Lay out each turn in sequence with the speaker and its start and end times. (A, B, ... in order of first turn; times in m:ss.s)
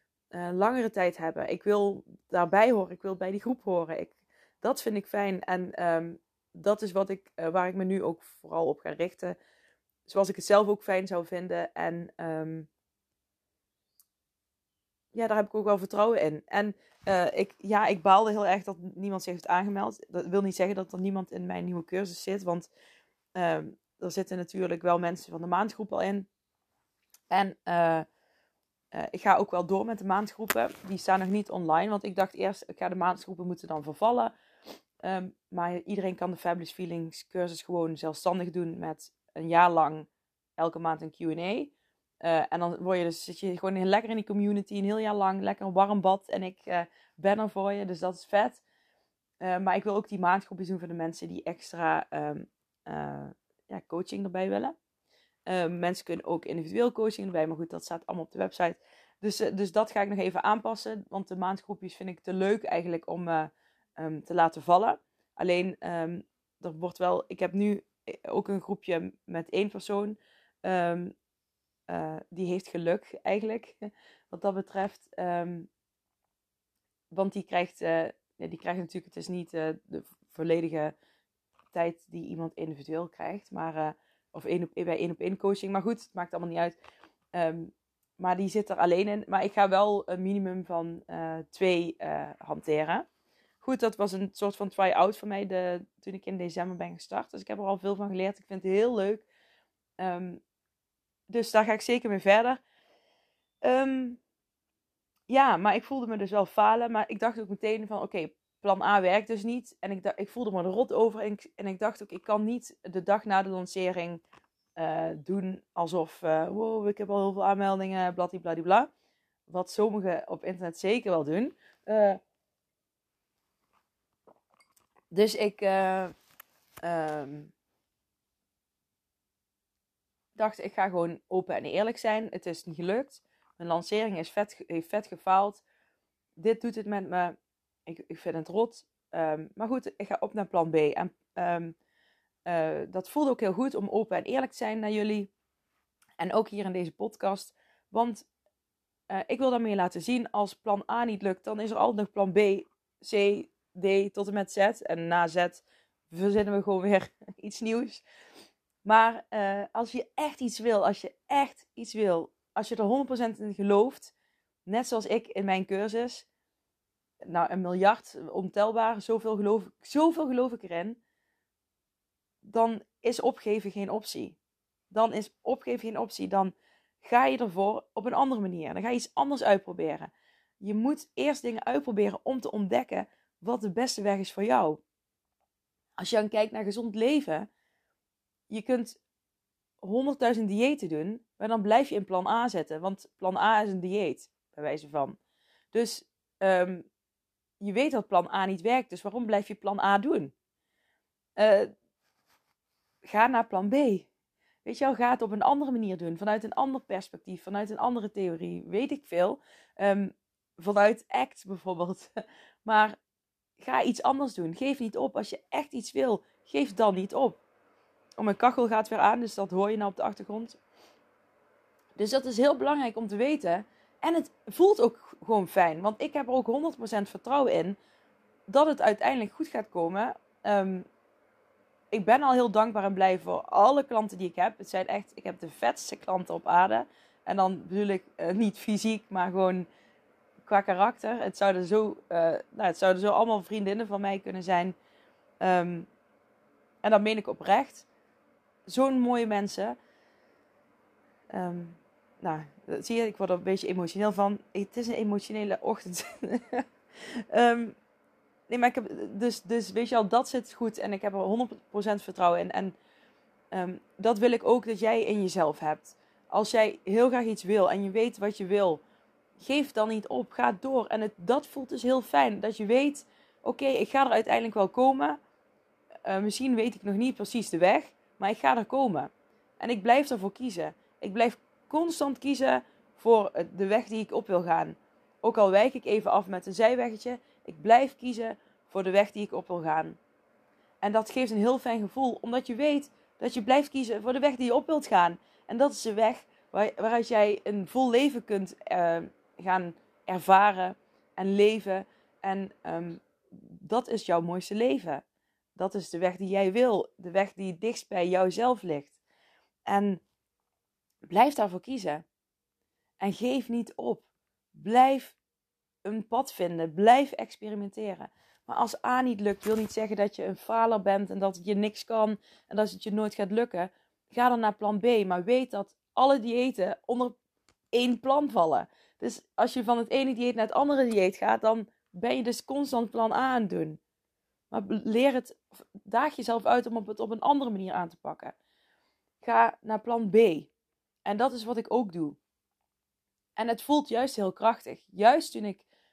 0:00.3-0:09.4 A
0:10.1-0:12.7 A
0:15.1-0:22.7 A
0:23.3-0:26.3 A
0:27.3-0:28.1 A
0:28.9-0:34.3 A
0:35.0-0:48.6 A
0:49.4-0:54.8 A
0:55.5-1:11.1 A
1:11.9-1:15.7 A
1:17.1-1:20.9 A
1:21.7-1:26.8 A
1:27.3-1:33.1 A
1:33.6-1:39.2 A
1:40.0-1:40.4 A
1:41.3-1:42.6 A
1:43.6-1:44.2 A
1:45.3-1:54.2 A
1:54.8-1:58.9 A
1:59.5-2:02.2 A
2:05.1-2:06.1 A
2:06.8-2:07.5 A
2:10.4-2:15.6 A
2:16.4-2:21.8 A
2:22.4-2:25.3 A
2:26.2-2:28.3 A
2:29.1-2:38.0 A
2:38.8-2:44.1 A
2:44.6-2:46.2 A
2:47.2-2:51.0 A
2:52.4-2:54.4 A
2:54.9-3:04.8 A
3:06.0-3:07.5 A
3:08.5-3:09.0 A
3:09.8-3:15.2 A
3:15.7-3:16.8 A
3:17.6-3:20.3 A
3:21.4-3:21.7 A
3:23.0-3:24.1 A
3:24.6-3:32.1 A
3:32.6-3:33.0 A
3:33.6-3:37.4 A
3:38.2-3:40.6 A
3:42.0-3:47.8 A
3:48.5-3:50.8 A
3:51.9-3:59.7 A
4:00.4-4:04.8 A
4:05.4-4:05.9 A
4:06.8-4:07.9 A
4:08.7-4:09.8 A
4:11.3-4:17.8 A
4:18.5-4:22.8 A
4:23.5-4:28.8 A
4:29.4-4:35.2 A
4:36.0-4:50.0 A
4:50.8-5:05.0 A
5:05.6-5:09.0 A
5:09.7-5:10.0 A
5:11.0-5:12.0 A
5:13.0-5:15.2 A
5:15.8-5:27.1 A
5:27.7-5:33.8 A
5:34.5-5:38.4 A
5:39.2-5:40.5 A
5:41.0-5:42.2 A
5:43.4-5:45.6 A